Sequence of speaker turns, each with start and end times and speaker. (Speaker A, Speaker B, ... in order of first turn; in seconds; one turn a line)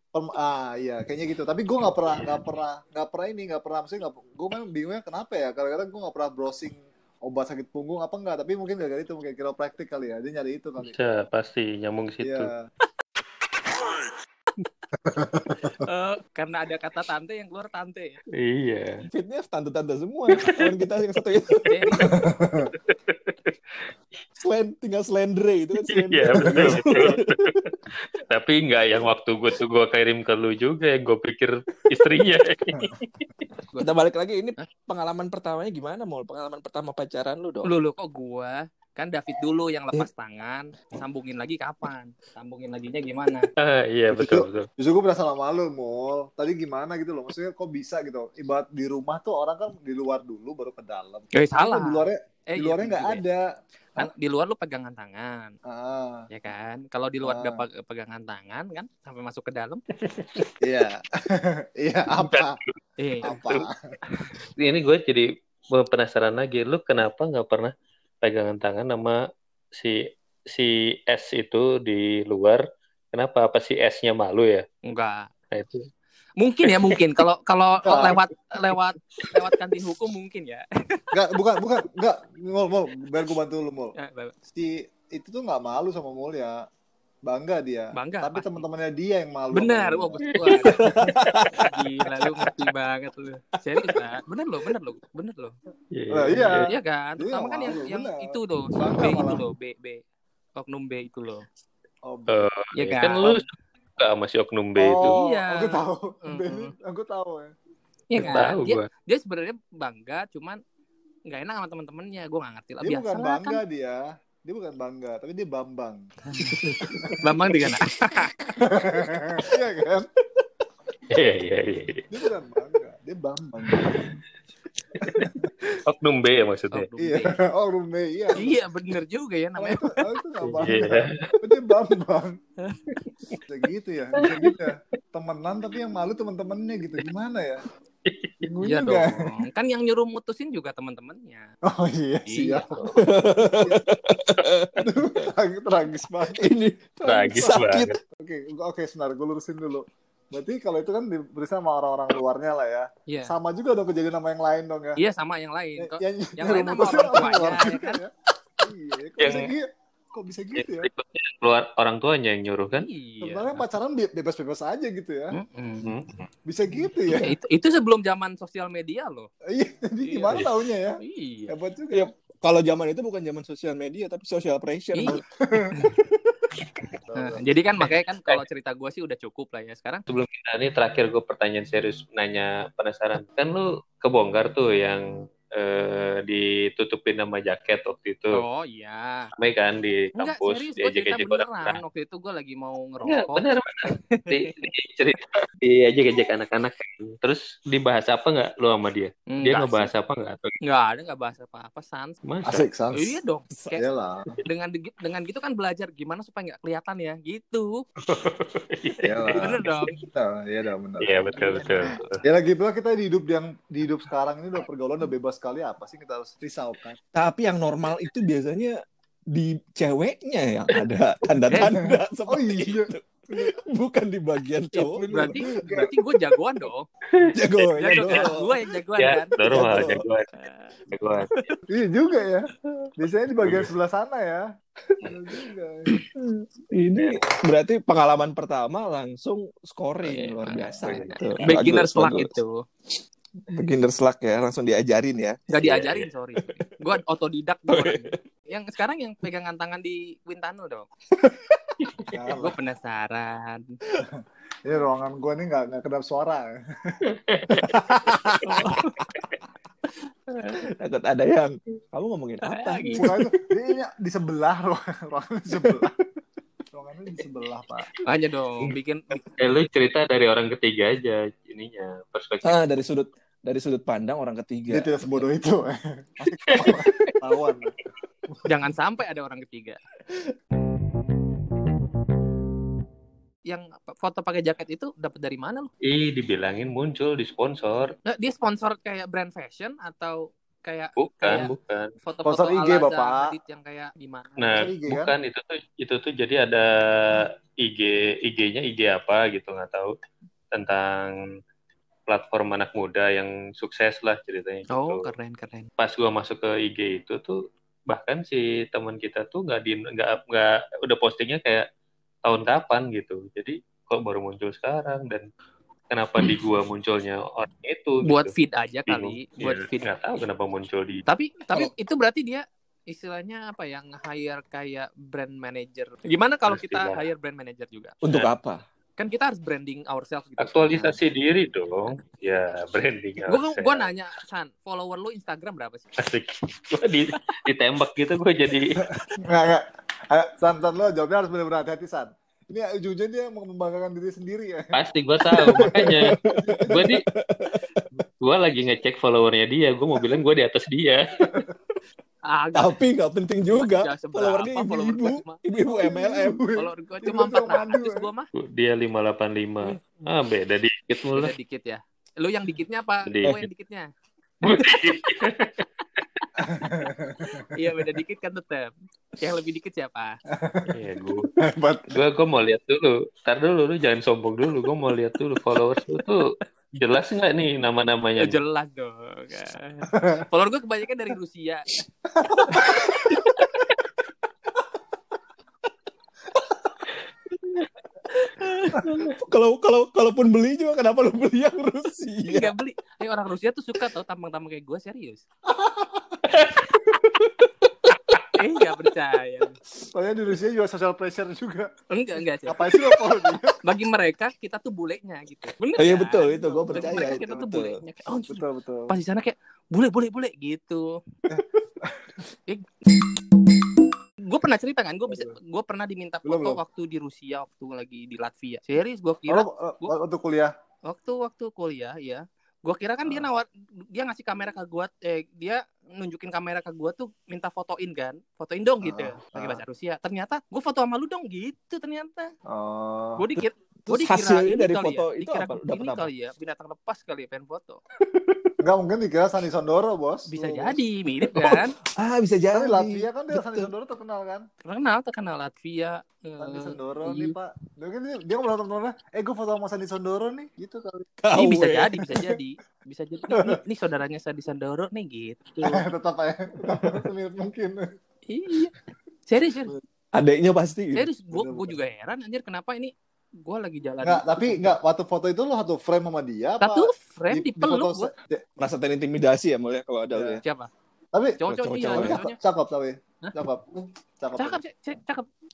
Speaker A: 0.1-11.0
Speaker B: 2.1-2.4
Speaker B: 10.8-12.5
Speaker A: 12.2-12.7
Speaker A: 15.1-15.8
Speaker C: 15.8-18.2
Speaker B: 18.4-19.0
Speaker D: 19.1-21.8
Speaker C: 21.7-22.1
Speaker A: 22.0-22.7
Speaker B: 22.9-23.6
Speaker D: 24.4-27.7
Speaker B: 25.9-27.6
Speaker B: 28.2-33.3
Speaker D: 33.8-37.7
Speaker C: 37.6-43.5
Speaker B: 43.6-44.7
Speaker A: 44.1-53.4
Speaker C: 51.3-53.2
Speaker C: 54.0-55.5
Speaker A: 55.7-56.3
Speaker C: 56.3-59.8
Speaker A: 57.2-57.6
Speaker B: 60.1-60.5
Speaker A: 60.6-62.5
Speaker B: 62.2-63.6
Speaker C: 63.0-63.4
Speaker A: 63.2-63.8
Speaker B: 64.6-69.2
Speaker B: 69.7-74.7
Speaker C: 74.8-75.3
Speaker B: 75.5-75.8
Speaker C: 76.4-81.0
Speaker B: 76.7-76.9
Speaker A: 77.9-78.2
Speaker A: 81.1-83.9
Speaker C: 84.0-84.3
Speaker A: 84.5-86.6
Speaker A: 87.3-90.3
Speaker C: 88.0-88.7
Speaker C: 89.5-90.9
Speaker D: 90.5-92.2
Speaker C: 91.6-95.5
Speaker B: 95.9-96.7
Speaker A: 96.1-99.5
Speaker C: 96.7-100.0
Speaker C: 100.6-101.5
Speaker A: 102.0-102.5
Speaker B: 102.3-103.4
Speaker C: 102.8-103.4
Speaker B: 104.0-105.2
Speaker A: 104.8-107.5
Speaker C: 105.0-106.7
Speaker C: 108.1-110.6
Speaker B: 108.2-108.9
Speaker C: 111.3-113.6
Speaker A: 112.8-116.0
Speaker C: 116.3-116.6
Speaker D: 116.5-117.1
Speaker A: 116.9-117.2
Speaker C: 117.2-118.3
Speaker A: 118.6-120.1
Speaker B: 121.1-122.0
Speaker A: 122.1-124.2
Speaker B: 123.8-124.1
Speaker B: 125.0-126.9
Speaker A: 125.1-125.3
Speaker C: 126.7-127.4
Speaker A: 127.0-128.6
Speaker C: 128.4-129.9
Speaker A: 129.6-132.3
Speaker B: 130.5-131.3
Speaker A: 133.5-137.6
Speaker B: 138.1-138.4
Speaker A: 138.4-139.3
Speaker C: 138.6-141.5
Speaker A: 141.7-143.8
Speaker C: 142.3-142.8
Speaker D: 143.0-145.1
Speaker A: 144.8-146.4
Speaker D: 146.3-147.9
Speaker B: 147.1-148.0
Speaker A: 148.2-155.0
Speaker C: 153.1-153.3
Speaker C: 155.0-158.0
Speaker A: 155.8-158.1
Speaker A: 158.6-160.9
Speaker B: 159.2-159.4
Speaker B: 160.6-162.9
Speaker C: 162.7-163.6
Speaker A: 163.2-165.4
Speaker C: 165.3-165.9
Speaker B: 165.8-166.1
Speaker A: 166.5-167.3
Speaker C: 167.1-169.3
Speaker A: 169.5-172.1
Speaker C: 170.0-170.4
Speaker C: 171.0-171.5
Speaker D: 171.9-175.2
Speaker C: 174.9-175.2
Speaker A: 177.1-177.5
Speaker C: 177.2-180.0
Speaker B: 180.1-188.4
Speaker C: 188.4-189.3
Speaker B: 189.4-191.8
Speaker C: 190.2-194.6
Speaker B: 193.0-200.5
Speaker C: 199.3-199.9
Speaker C: 200.6-202.2
Speaker B: 202.2-202.7
Speaker A: 202.5-203.2
Speaker C: 202.9-203.8
Speaker A: 203.8-204.3
Speaker C: 204.4-207.8
Speaker B: 208.1-209.9
Speaker A: 209.0-217.0
Speaker C: 209.4-209.9
Speaker B: 211.0-212.2
Speaker D: 217.1-218.8
Speaker D: 219.3-225.4
Speaker A: 222.3-223.5
Speaker C: 224.7-226.9
Speaker A: 225.3-225.9
Speaker B: 227.2-228.2
Speaker D: 227.4-228.6
Speaker A: 227.6-228.3
Speaker C: 227.8-229.4
Speaker B: 229.0-230.3
Speaker D: 229.5-230.0
Speaker C: 230.4-230.8
Speaker B: 230.9-231.3
Speaker A: 231.7-232.5
Speaker A: 233.0-234.4
Speaker A: 235.1-235.9
Speaker D: 236.2-242.4
Speaker C: 240.1-240.8
Speaker B: 240.8-241.6
Speaker C: 241.4-242.6
Speaker D: 243.5-245.4
Speaker C: 245.5-250.9
Speaker B: 245.6-246.0
Speaker D: 246.4-246.8
Speaker D: 247.7-248.2
Speaker A: 252.1-252.6
Speaker C: 252.4-253.7
Speaker A: 254.7-256.9
Speaker B: 257.3-257.7
Speaker A: 257.6-258.6
Speaker C: 258.4-259.0
Speaker D: 260.6-263.3
Speaker C: 262.4-263.1
Speaker A: 263.0-265.9
Speaker A: 266.7-267.9
Speaker C: 268.1-269.2
Speaker B: 269.4-272.6
Speaker D: 272.4-275.0
Speaker A: 274.7-277.7
Speaker D: 276.5-277.1
Speaker C: 278.4-279.8
Speaker C: 283.5-285.7
Speaker B: 285.8-287.9
Speaker C: 288.1-294.6
Speaker B: 291.0-291.9
Speaker D: 291.3-291.6
Speaker A: 292.2-293.3
Speaker B: 294.4-299.9
Speaker A: 294.6-295.1
Speaker B: 300.5-301.1
Speaker B: 302.1-305.1
Speaker C: 304.7-305.7
Speaker B: 305.8-307.4
Speaker B: 307.9-311.6
Speaker B: 312.2-315.3
Speaker B: 315.9-318.3
Speaker C: 318.0-320.0
Speaker B: 318.9-321.0
Speaker C: 321.1-327.9
Speaker B: 326.5-327.1
Speaker D: 328.0-328.6
Speaker C: 329.0-331.0
Speaker B: 330.4-333.9
Speaker C: 333.3-335.9
Speaker B: 336.0-338.8
Speaker A: 339.3-344.8
Speaker B: 344.7-346.1
Speaker D: 345.3-347.8
Speaker A: 345.4-346.9
Speaker B: 346.7-347.0
Speaker B: 348.2-351.4
Speaker C: 352.3-352.8
Speaker D: 352.6-356.4
Speaker C: 353.5-355.4
Speaker A: 355.7-358.1
Speaker C: 356.6-358.3
Speaker B: 358.3-361.3
Speaker C: 361.2-363.9
Speaker B: 363.1-363.4
Speaker B: 364.4-365.6
Speaker C: 364.5-364.9
Speaker A: 366.4-367.4
Speaker C: 367.5-370.2
Speaker A: 370.4-370.7
Speaker B: 370.7-371.3
Speaker A: 371.5-371.9
Speaker B: 371.9-378.4
Speaker C: 378.2-381.7
Speaker A: 382.2-383.0
Speaker D: 382.5-382.8
Speaker C: 382.5-383.5
Speaker C: 388.4-388.9
Speaker D: 388.7-392.5
Speaker C: 392.3-395.2
Speaker A: 395.5-396.2
Speaker B: 396.3-396.9
Speaker C: 398.4-399.6
Speaker A: 399.9-401.7
Speaker C: 401.9-402.6
Speaker A: 402.5-403.6
Speaker C: 403.6-410.9
Speaker D: 405.8-407.8
Speaker A: 406.7-407.2
Speaker A: 408.3-408.9
Speaker A: 411.3-412.0
Speaker C: 412.5-412.9
Speaker C: 414.2-419.9
Speaker A: 416.2-416.6
Speaker A: 419.3-420.5
Speaker C: 420.9-432.3
Speaker A: 428.8-429.6
Speaker A: 432.5-433.2
Speaker C: 433.2-437.8
Speaker D: 433.8-436.1
Speaker A: 438.6-440.8
Speaker C: 440.3-441.8
Speaker D: 441.3-443.7
Speaker A: 442.5-444.5
Speaker C: 444.6-447.3
Speaker A: 446.4-451.1
Speaker D: 451.2-451.9
Speaker C: 451.3-455.8
Speaker A: 453.3-453.6
Speaker A: 455.6-457.8
Speaker C: 458.3-458.7
Speaker C: 459.3-459.7
Speaker D: 460.1-461.1
Speaker C: 460.9-462.9
Speaker A: 461.3-461.7
Speaker C: 463.4-464.7
Speaker A: 464.0-468.4
Speaker C: 466.6-468.1
Speaker D: 468.6-470.4
Speaker A: 470.1-470.4
Speaker C: 470.4-470.7
Speaker A: 471.1-474.6
Speaker C: 471.4-472.4
Speaker D: 471.5-472.2
Speaker C: 474.4-475.3